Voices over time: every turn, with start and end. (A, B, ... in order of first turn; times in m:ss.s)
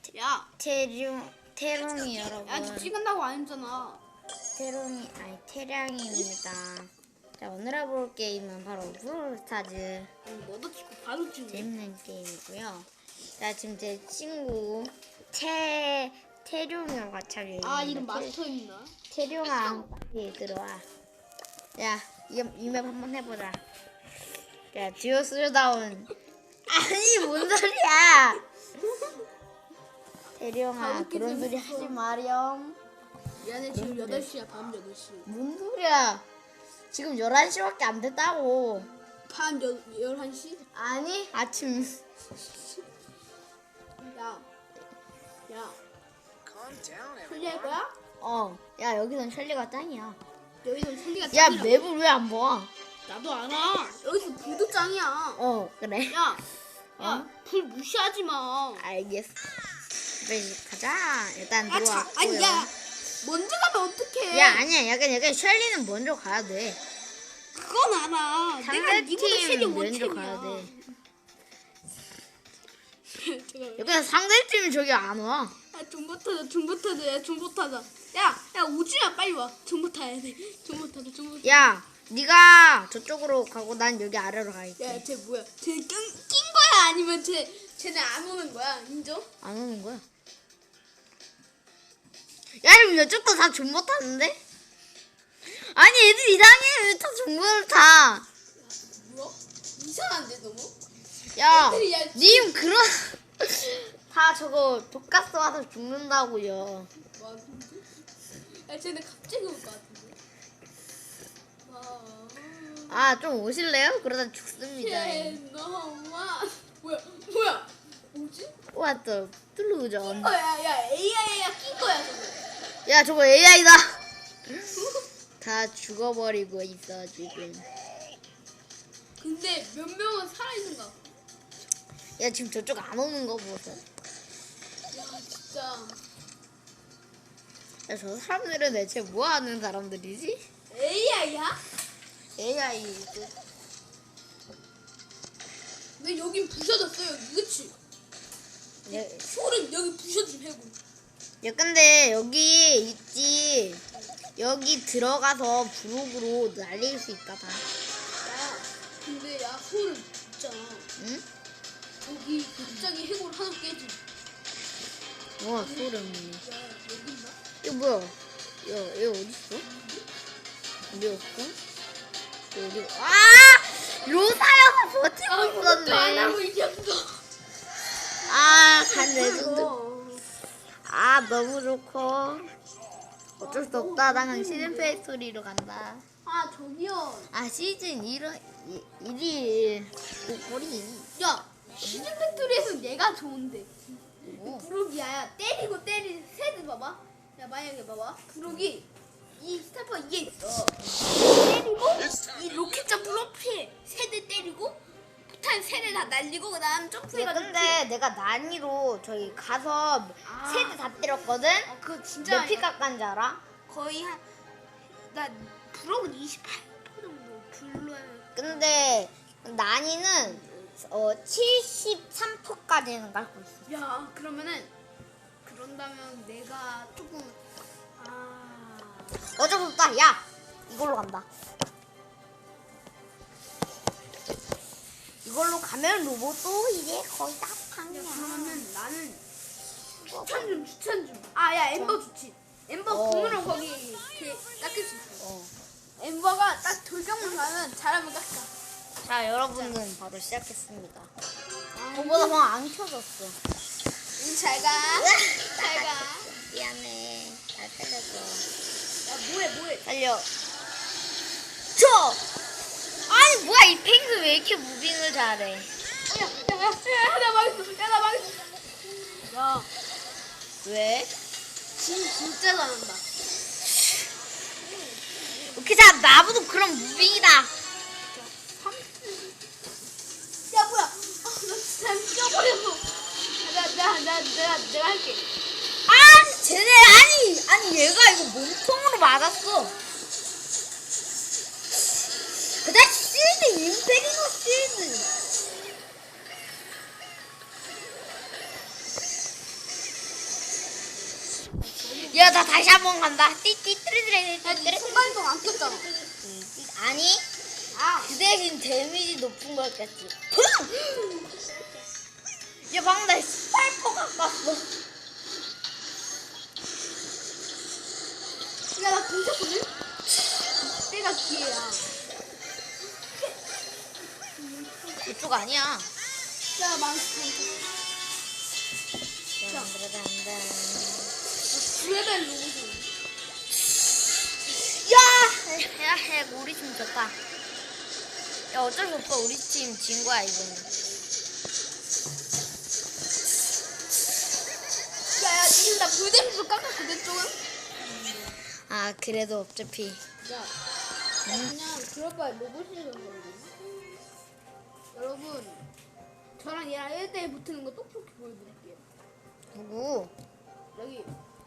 0:00.1-0:00.5 A
0:00.6-0:02.9 B
0:02.4-0:04.0 A
0:04.5-0:10.1 B
0:10.2-0:11.7 A
0:11.5-0:18.3 B
0:17.6-0:19.0 A
0:19.1-0:20.8 B
0:21.8-0:23.6 B
0:24.7-0:26.1 B
0:26.7-0:28.4 B
0:28.8-0:29.2 A
0:30.4-0:32.8 B
0:30.8-0:32.0 A
0:33.4-0:35.3 A
0:33.7-0:34.3 B
0:35.2-0:36.2 B
0:36.9-0:38.9 B
0:39.3-0:40.6 A
0:40.7-0:42.0 B
0:44.0-0:44.5 A
0:45.5-0:45.8 A
0:47.2-0:47.9 A
0:48.2-0:50.2 B
0:50.6-0:51.9 A
0:51.3-0:52.7 B
0:53.0-0:55.4 A
0:55.4-0:56.2 B
0:56.1-0:56.4 A
0:57.0-0:57.3 B
0:57.0-0:58.8 A
0:58.8-0:59.3 B
1:00.2-1:02.7 B
1:01.6-1:04.6 A
1:04.3-1:06.8 B
1:07.5-1:10.8 A
1:08.6-1:10.7 B
1:13.1-1:13.9 A
1:13.8-1:15.5 B
1:15.7-1:21.7 A
1:21.4-1:25.0 B
1:24.8-1:29.3 A
1:29.4-1:30.0 B
1:32.6-1:34.4 B
1:35.4-1:38.2 B
1:38.6-1:40.7 A
1:41.3-1:46.9 B
1:41.4-1:42.5 A
1:47.1-1:50.2 A
1:51.6-1:53.0 A
1:52.9-1:55.4 B
1:54.8-1:58.6 A
1:58.7-2:00.4 B
2:00.0-2:02.4 A
2:02.8-2:04.0 B
2:04.7-2:05.1 A
2:05.4-2:07.6 B
2:09.2-2:11.1 A
2:12.2-2:13.8 B
2:14.9-2:16.0 A
2:17.9-2:20.4 B
2:20.7-2:21.6 A
2:22.4-2:23.3 B
2:26.0-2:27.7 A
2:28.8-2:29.2 B
2:28.9-2:30.8 A
2:31.4-2:33.8 B
2:34.4-2:37.6 B
2:38.2-2:40.9 A
2:41.0-2:41.2 B
2:42.0-2:44.0 A
2:45.4-2:46.4 B
2:45.6-2:47.4 A
2:47.6-2:49.6 B
2:49.6-2:50.0 A
2:50.9-2:51.6 B
2:52.5-2:56.4 B
2:55.3-2:57.2 A
2:58.2-2:59.7 B
2:58.5-3:00.2 A
3:00.8-3:02.5 B
3:03.4-3:05.0 A
3:03.4-3:06.0 B
3:06.2-3:07.3 A
3:07.3-3:11.1 B
3:11.2-3:27.8 A
3:11.8-3:12.1 B
3:14.3-3:14.7 B
3:27.1-3:31.7 B
3:30.2-3:30.8 A
3:31.6-3:32.7 A
3:32.2-3:33.4 B
3:33.7-3:34.2 A
3:35.0-3:39.0 A
3:38.4-3:43.6 B
3:40.2-3:40.7 A
3:43.6-3:44.7 A
3:45.4-3:47.4 A
3:48.0-3:49.3 A
3:49.4-3:51.2 B
3:55.2-3:58.6 B
3:57.9-3:59.2 A
4:00.0-4:00.6 B
4:00.2-4:05.2 A
4:01.7-4:02.0 B
4:02.9-4:03.4 B
4:05.2-4:05.5 B
4:06.0-4:08.5 A
4:09.0-4:11.1 B
4:11.7-4:12.5 A
4:11.9-4:13.4 B
4:14.2-4:16.3 A
4:15.0-4:18.4 B
4:19.0-4:19.8 A
4:19.8-4:20.3 B
4:21.7-4:22.2 B
4:23.1-4:25.7 B
4:26.1-4:29.7 A
4:30.6-4:31.1 B
4:31.8-4:33.0 A
4:34.6-4:35.9 A
4:35.5-4:37.5 B
4:38.1-4:39.4 A
4:40.5-4:45.2 A
4:45.8-4:49.7 B
4:52.6-4:55.1 B
5:01.4-5:02.8 A
5:02.0-5:05.2 B
5:04.4-5:05.9 A
5:05.9-5:07.2 B
5:07.7-5:08.1 A
5:08.0-5:10.7 B
5:10.8-5:11.1 A
5:12.7-5:14.7 B
5:18.7-5:19.7 A
5:20.6-5:21.9 A
5:24.4-5:25.0 A
5:25.0-5:25.9 B
5:26.5-5:27.7 A
5:29.4-5:31.1 B
5:31.5-5:32.9 A
5:34.8-5:37.2 B
5:38.5-5:40.7 B
5:45.1-5:48.4 A
5:48.4-5:50.0 B
5:50.2-5:50.5 A
5:51.2-5:51.5 B
5:51.3-5:53.5 A
5:54.9-5:55.6 A
5:56.4-5:58.8 A
5:59.5-6:00.1 B
6:00.7-6:01.1 A